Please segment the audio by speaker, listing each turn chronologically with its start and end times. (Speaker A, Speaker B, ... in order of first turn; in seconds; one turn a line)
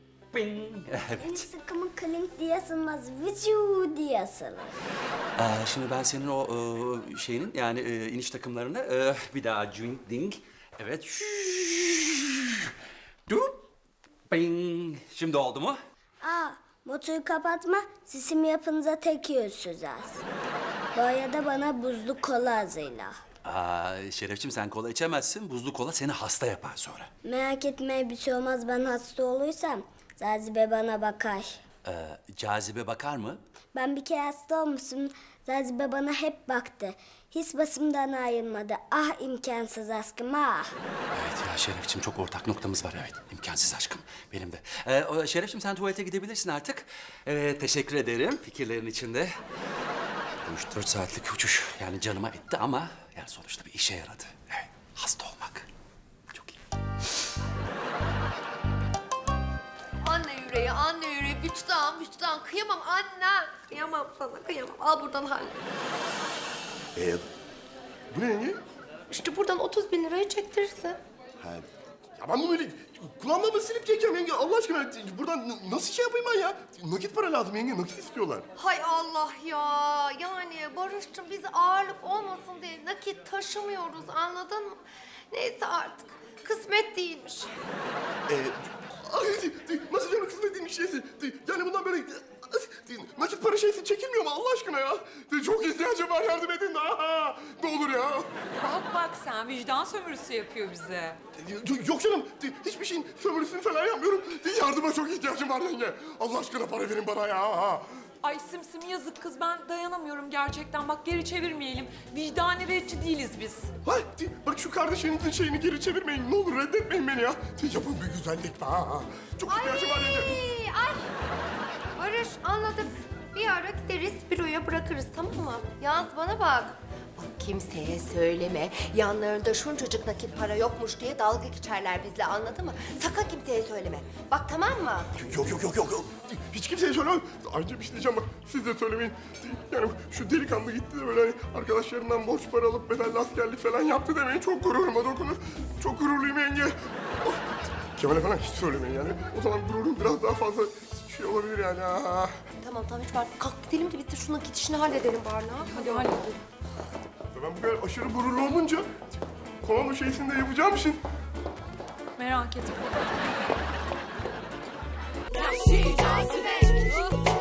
Speaker A: 0.3-1.5
Speaker B: 1.2-4.8
Speaker A: 5.4-12.7
Speaker A: 13.3-13.5
Speaker A: 14.3-15.8
Speaker B: 16.2-20.2
Speaker B: 20.9-23.2
Speaker A: 23.4-27.1
Speaker B: 27.2-31.6
Speaker A: 31.8-33.4
Speaker B: 33.7-40.7
Speaker A: 41.1-49.3
Speaker A: 50.4-55.7
Speaker A: 56.3-56.6
Speaker C: 60.0-65.6
Speaker D: 67.0-67.3
Speaker D: 68.1-68.6
Speaker C: 69.1-71.0
Speaker D: 71.4-78.5
Speaker C: 78.6-84.8
Speaker C: 85.3-87.5
Speaker D: 88.3-98.3
Speaker E: 98.6-101.2
Speaker D: 101.4-107.9
Speaker E: 108.2-113.7
Speaker D: 113.8-120.4
Speaker C: 119.5-121.1
Speaker C: 122.0-135.1
Speaker D: 135.2-147.4
Speaker D: 147.9-152.3
Speaker C: 152.6-156.2
Speaker E: 155.7-156.4
Speaker D: 157.3-158.9
Speaker D: 159.6-161.0
Speaker E: 162.2-163.0
Speaker E: 165.3-167.1